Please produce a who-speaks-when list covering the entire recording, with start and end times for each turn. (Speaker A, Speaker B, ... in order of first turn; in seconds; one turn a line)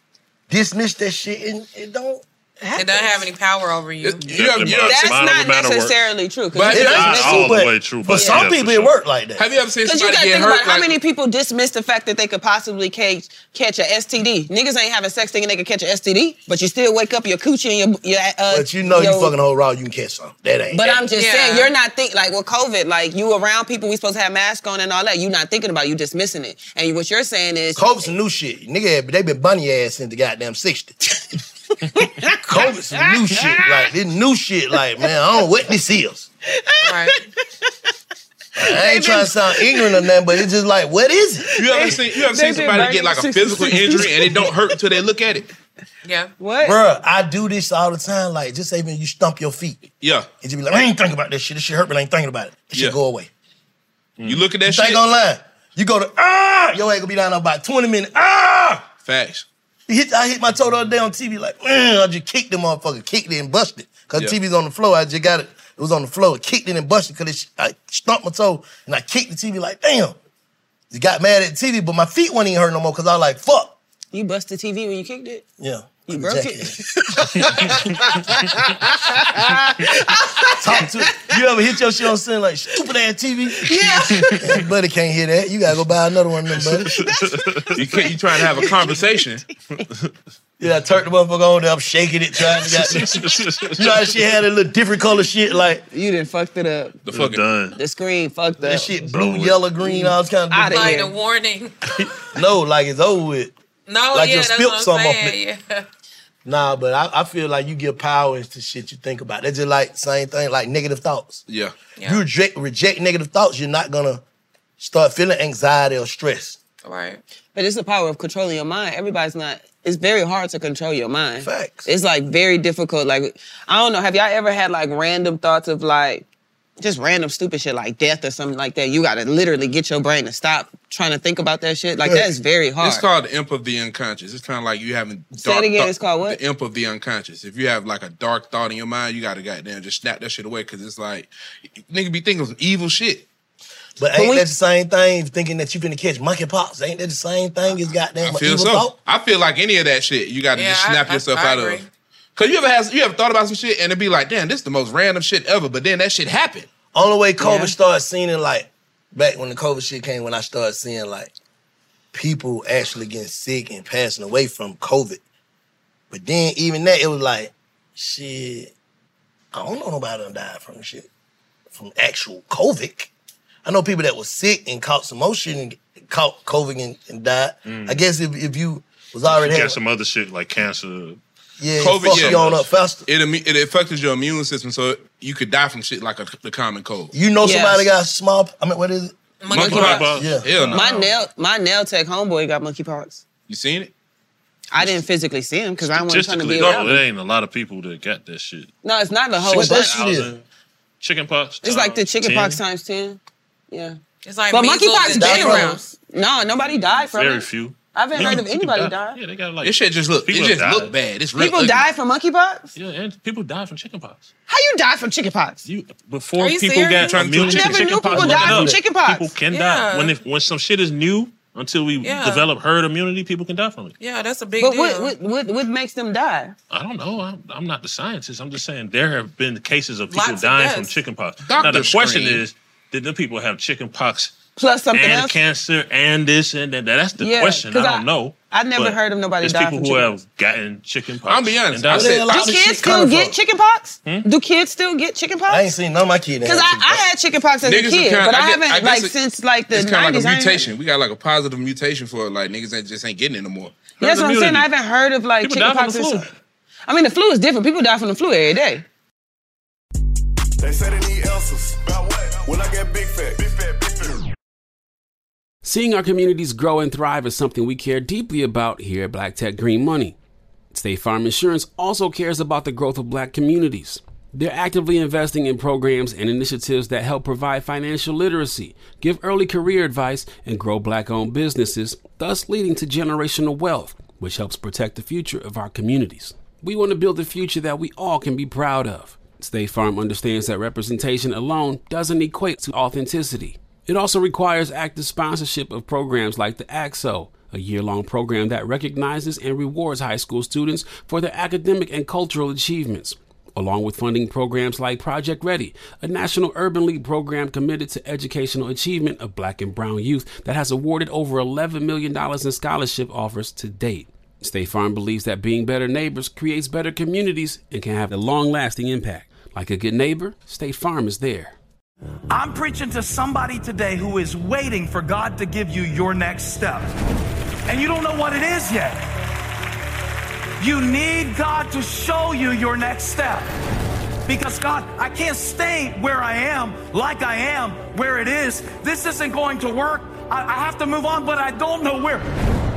Speaker A: 0.5-3.3
Speaker B: 2.8-4.2
Speaker C: 4.0-5.0
Speaker D: 4.2-6.0
Speaker E: 4.8-7.6
Speaker C: 6.5-7.5
Speaker A: 6.7-9.4
Speaker D: 6.7-8.9
Speaker E: 8.2-8.4
Speaker C: 9.4-10.9
Speaker E: 9.8-19.3
Speaker A: 18.5-21.1
Speaker E: 20.7-28.1
Speaker B: 21.1-21.7
Speaker A: 27.8-31.0
Speaker E: 31.9-33.8
Speaker A: 32.4-36.3
Speaker E: 36.6-37.1
Speaker B: 36.8-37.2
Speaker A: 38.6-41.5
Speaker E: 38.6-40.1
Speaker C: 41.6-45.5
Speaker E: 41.6-44.6
Speaker B: 46.0-46.3
Speaker E: 46.4-46.8
Speaker A: 46.6-49.8
Speaker C: 50.0-50.3
Speaker A: 50.4-53.3
Speaker D: 54.2-54.5
Speaker C: 54.2-55.0
Speaker A: 54.7-58.9
Speaker C: 59.0-59.5
Speaker A: 59.9-70.2
Speaker A: 70.9-73.8
Speaker E: 74.1-75.5
Speaker A: 75.6-77.8
Speaker E: 76.1-81.4
Speaker A: 80.6-87.0
Speaker E: 83.6-84.6
Speaker D: 86.7-87.6
Speaker E: 86.9-89.3
Speaker C: 87.8-89.4
Speaker A: 90.6-95.8
Speaker D: 92.7-94.1
Speaker E: 95.9-97.0
Speaker C: 97.1-97.5
Speaker D: 97.1-97.8
Speaker E: 97.8-99.0
Speaker A: 98.6-100.9
Speaker D: 99.0-99.6
Speaker E: 99.8-101.1
Speaker B: 100.6-102.0
Speaker A: 102.3-103.5
Speaker B: 103.9-105.9
Speaker A: 104.1-105.4
Speaker A: 106.5-111.5
Speaker C: 111.5-111.8
Speaker A: 112.0-114.2
Speaker A: 114.8-116.6
Speaker B: 116.8-117.2
Speaker E: 117.5-126.3
Speaker A: 121.4-121.9
Speaker E: 126.8-133.1
Speaker A: 132.0-132.3
Speaker C: 132.8-143.3
Speaker E: 135.3-136.4
Speaker A: 144.0-148.9
Speaker E: 144.2-144.5
Speaker C: 148.2-156.7
Speaker B: 150.6-151.9
Speaker A: 156.9-161.3
Speaker E: 157.4-157.7
Speaker A: 162.1-165.2
Speaker A: 166.1-168.7
Speaker A: 169.5-171.1
Speaker A: 171.7-173.1
Speaker A: 173.6-179.8
Speaker D: 177.7-178.0
Speaker D: 179.3-181.2
Speaker A: 181.6-183.1
Speaker C: 181.8-187.1
Speaker D: 182.0-182.6
Speaker A: 187.1-189.1
Speaker E: 187.4-187.9
Speaker B: 189.4-189.9
Speaker C: 189.5-191.1
Speaker D: 189.6-191.1
Speaker A: 189.9-190.5
Speaker E: 190.7-193.2
Speaker C: 193.5-193.9
Speaker E: 194.7-197.0
Speaker D: 195.8-198.7
Speaker E: 198.8-200.0
Speaker D: 199.4-200.4
Speaker A: 199.5-200.3
Speaker D: 201.0-202.6
Speaker E: 201.6-203.2
Speaker E: 203.7-204.0
Speaker B: 204.2-205.8
Speaker E: 204.5-209.2
Speaker A: 205.2-205.8
Speaker D: 206.7-211.0
Speaker C: 209.6-211.9
Speaker E: 211.4-212.8
Speaker D: 212.8-214.3
Speaker E: 214.5-215.7
Speaker D: 215.7-224.0
Speaker B: 216.4-217.2
Speaker C: 217.0-218.7
Speaker E: 217.4-219.3
Speaker B: 219.5-220.2
Speaker B: 222.0-222.5
Speaker B: 224.0-225.2
Speaker E: 224.6-226.6
Speaker D: 226.7-234.3
Speaker B: 230.1-231.0
Speaker C: 231.5-232.4
Speaker E: 234.6-235.4
Speaker D: 234.9-242.2
Speaker E: 237.2-240.1
Speaker C: 241.2-242.6
Speaker A: 241.9-243.4
Speaker E: 242.2-245.7
Speaker A: 245.5-247.0
Speaker E: 246.4-250.7
Speaker C: 247.6-249.2
Speaker C: 249.7-253.8
Speaker D: 254.0-254.7
Speaker E: 254.0-256.3
Speaker D: 255.4-256.3
Speaker E: 256.9-258.8
Speaker F: 260.6-264.2
Speaker G: 265.6-270.2
Speaker G: 270.7-321.6
Speaker H: 322.3-327.0
Speaker H: 327.7-329.0
Speaker H: 330.6-333.5
Speaker H: 334.3-342.3